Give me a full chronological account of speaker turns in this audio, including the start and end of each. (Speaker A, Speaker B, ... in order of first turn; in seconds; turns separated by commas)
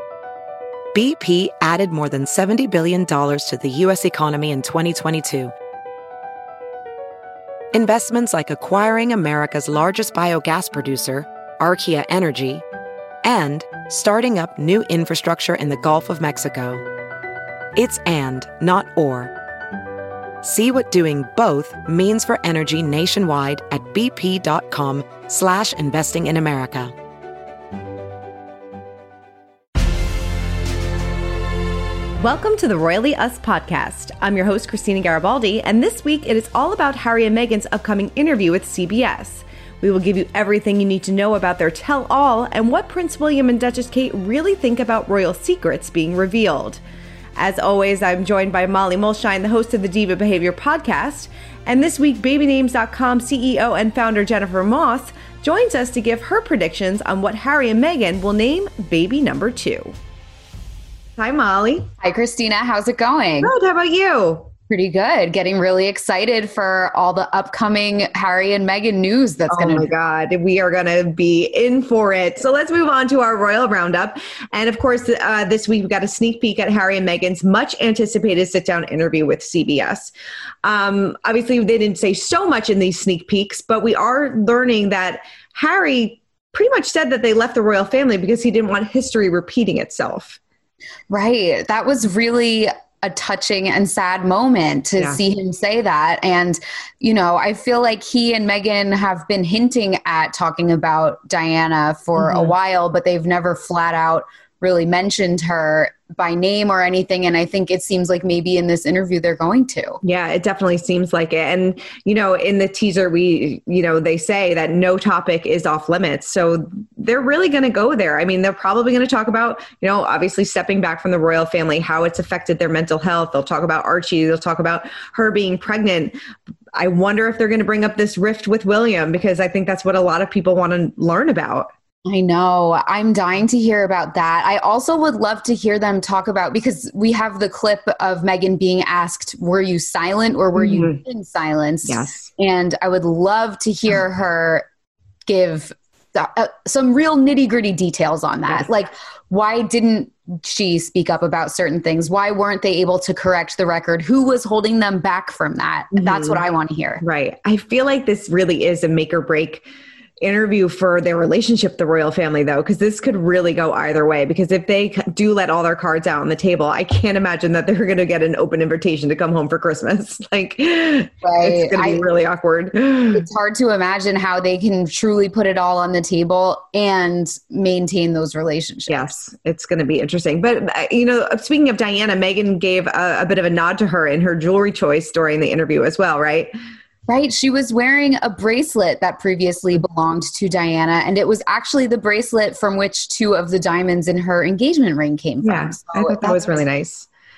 Speaker A: 0.9-5.5, Speaker A: 7.7-12.6, Speaker A: 13.2-16.8, Speaker A: 17.8-19.3, Speaker A: 20.4-26.9, Speaker B: 32.2-46.8, Speaker B: 47.4-59.9, Speaker B: 61.2-61.9, Speaker C: 62.0-63.5, Speaker B: 63.4-64.5, Speaker C: 64.7-69.9, Speaker B: 69.5-80.1, Speaker B: 80.6-90.4, Speaker C: 91.1-110.0, Speaker B: 102.2-102.5, Speaker B: 110.0-126.2, Speaker B: 126.7-131.7, Speaker C: 132.1-144.7, Speaker B: 140.6-141.0, Speaker B: 141.9-142.3, Speaker C: 145.3-157.0, Speaker B: 155.9-156.4, Speaker B: 157.0-159.7, Speaker B: 160.2-173.3, Speaker C: 171.2-172.0, Speaker C: 173.1-179.1, Speaker B: 178.9-186.5, Speaker C: 187.1-196.6, Speaker B: 195.4-197.1